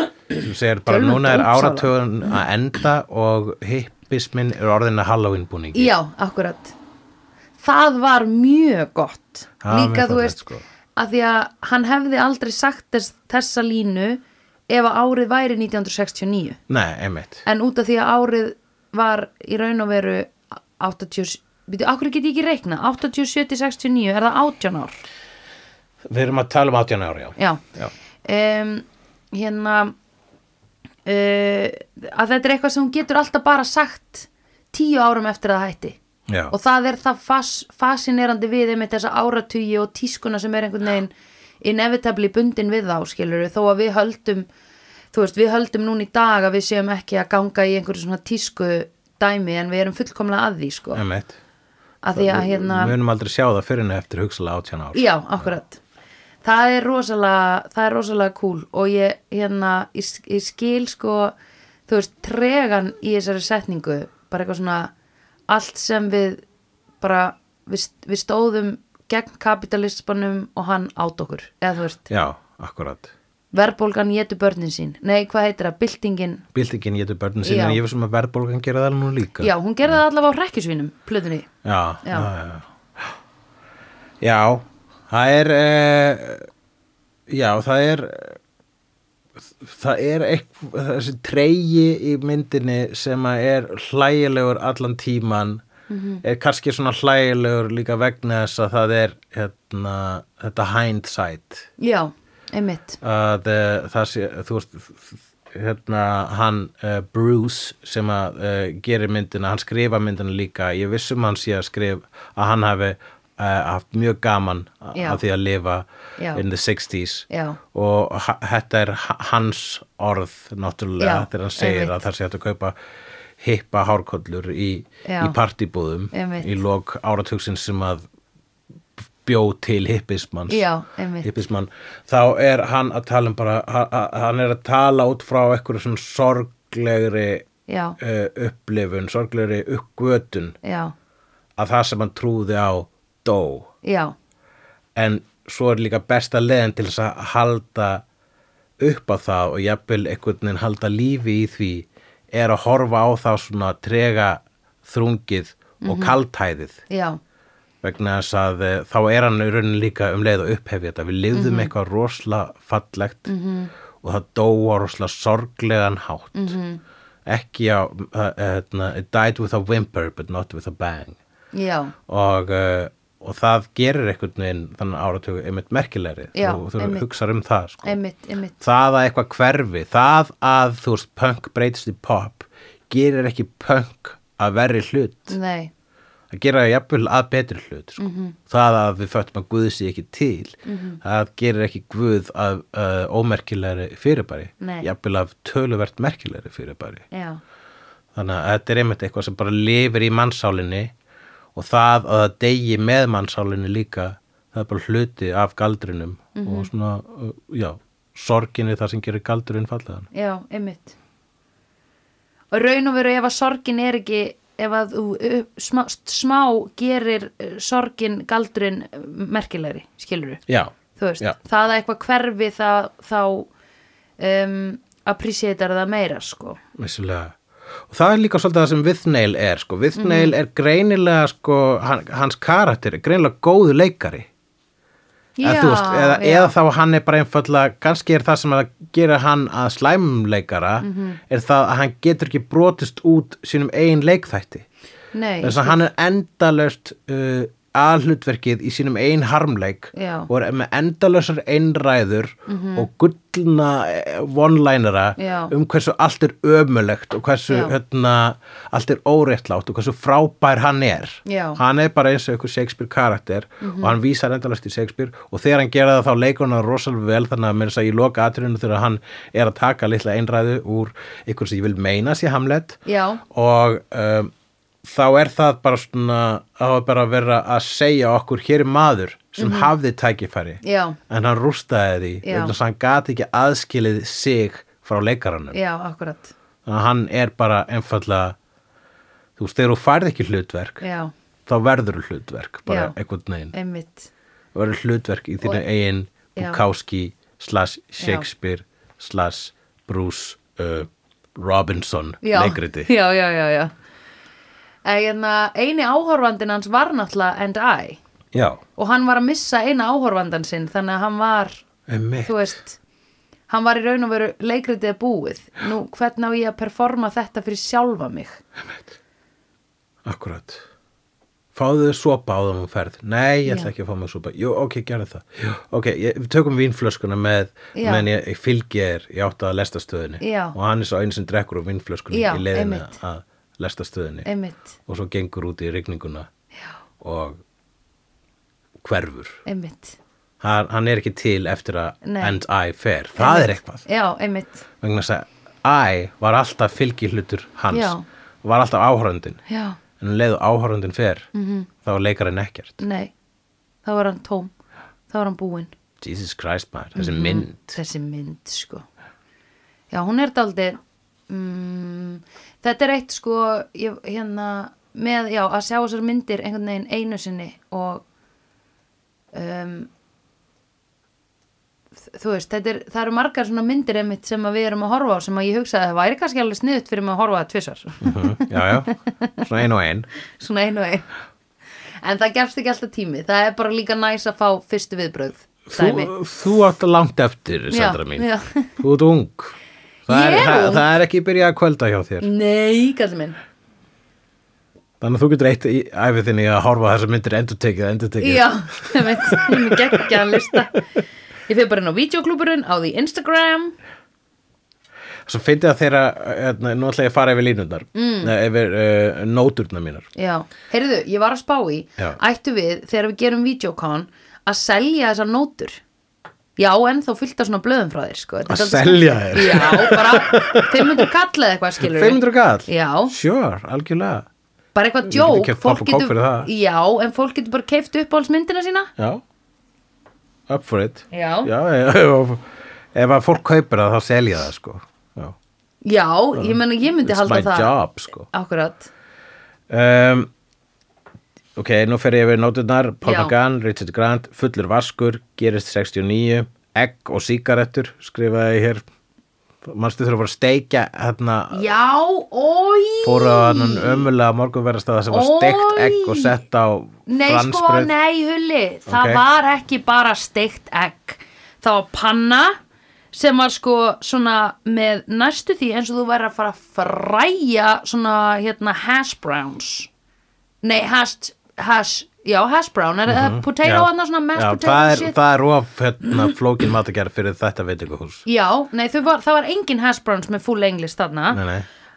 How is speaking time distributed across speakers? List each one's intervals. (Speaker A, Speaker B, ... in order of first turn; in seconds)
Speaker A: 0.3-5.9, 9.6-10.7, 16.7-17.4, 26.1-27.9, 36.3-36.5, 50.9-51.4, 52.1-55.5, 72.1-73.1, 76.5-80.0, 81.6-83.1, 84.2-86.5, 87.3-88.4, 89.4-95.6, 96.2-101.7, 103.0-122.8, 123.4-128.1, 129.2-130.7, 131.2-137.5, 138.0-140.6, 141.6-143.7, 144.9-148.0, 148.8-156.8, 157.8-163.3, 164.0-166.6, 167.3-171.2, 172.1-178.0, 178.6-185.4, 186.3-197.1, 198.1-200.9, 201.6-210.1, 220.5-221.4, 226.8-227.3, 227.9-234.3, 235.4-244.7, 245.4-274.3, 274.8-285.6, 286.7-288.4, 289.4-290.8, 291.5-293.5, 294.5-302.9, 308.3-308.6, 311.9-312.6, 320.1-320.6, 321.5-334.3, 334.9-336.3, 337.0-337.4, 338.8-339.4, 340.4-343.9, 344.8-349.4, 350.0-351.3, 351.8-352.8, 356.0-357.8, 378.0-380.1, 385.7-388.3, 388.8-389.5, 390.1-392.3, 395.0-400.3, 405.3-410.1, 418.5-421.1, 421.8-424.3, 425.1-426.5, 430.5-435.4, 436.4-438.3, 439.7-440.3, 441.6-448.8, 449.6-451.7, 453.0-457.9, 458.9-459.2, 473.1-478.2, 481.3-481.7
Speaker B: 0.9-1.9, 5.7-6.8, 7.6-10.4, 11.0-16.6, 17.4-25.0, 27.4-27.6, 28.2-29.9, 31.1-36.0, 36.5-44.5, 45.1-51.0, 52.0-53.0, 54.9-55.8, 56.4-61.4, 61.9-64.9, 65.5-66.4, 67.0-72.1, 73.5-76.5, 77.4-77.8, 79.4-81.5, 82.0-82.3, 95.9-96.2, 101.8-103.0, 114.9-115.2, 116.2-116.4, 117.3-117.6, 121.0-122.0, 125.0-125.4, 126.1-126.6, 130.5-131.4, 137.7-138.0, 140.6-140.9, 143.8-144.1, 155.8-156.2, 156.9-157.2, 161.3-161.7, 163.3-163.7, 166.3-166.8, 171.5-171.9, 176.3-177.1, 177.8-178.6, 185.3-185.7, 188.0-188.4, 190.7-191.0, 194.6-194.9, 197.1-197.4, 206.3-206.7, 210.1-211.0, 212.5-220.4, 221.0-223.5, 224.2-226.6, 229.9-230.3, 235.4-236.5, 240.8-241.2, 245.1-245.8, 249.9-250.3, 252.5-252.9, 255.2-255.5, 257.5-257.8, 261.2-261.6, 263.6-264.0, 272.9-273.2, 279.4-279.7, 280.6-281.0, 282.2-282.6, 285.5-286.3, 290.8-291.1, 292.7-292.9, 293.5-294.1, 296.4-296.6, 298.0-298.3, 302.2-303.7, 304.9-308.0, 308.8-311.6, 312.2-312.8, 313.5-318.4, 327.7-328.1, 330.2-330.6, 332.1-333.0, 334.2-334.8, 339.5-340.0, 342.0-342.4, 343.2-344.7, 347.7-348.1, 349.5-349.8, 351.3-351.7, 352.8-353.1, 353.9-354.5, 355.1-355.7, 357.0-358.9, 359.9-368.1, 369.3-369.9, 372.1-379.4, 380.4-381.1, 382.0-386.1, 387.7-388.7, 390.1-390.9, 392.2-393.4, 398.2-400.8, 401.5-403.8, 407.9-408.3, 410.1-415.8, 416.6-423.1, 424.8-428.9, 431.1-431.5, 435.8-437.8, 438.3-438.9, 443.1-443.3, 451.5-454.1, 455.1-456.4, 457.1-462.6, 463.1-469.9, 470.6-475.2, 478.3-481.4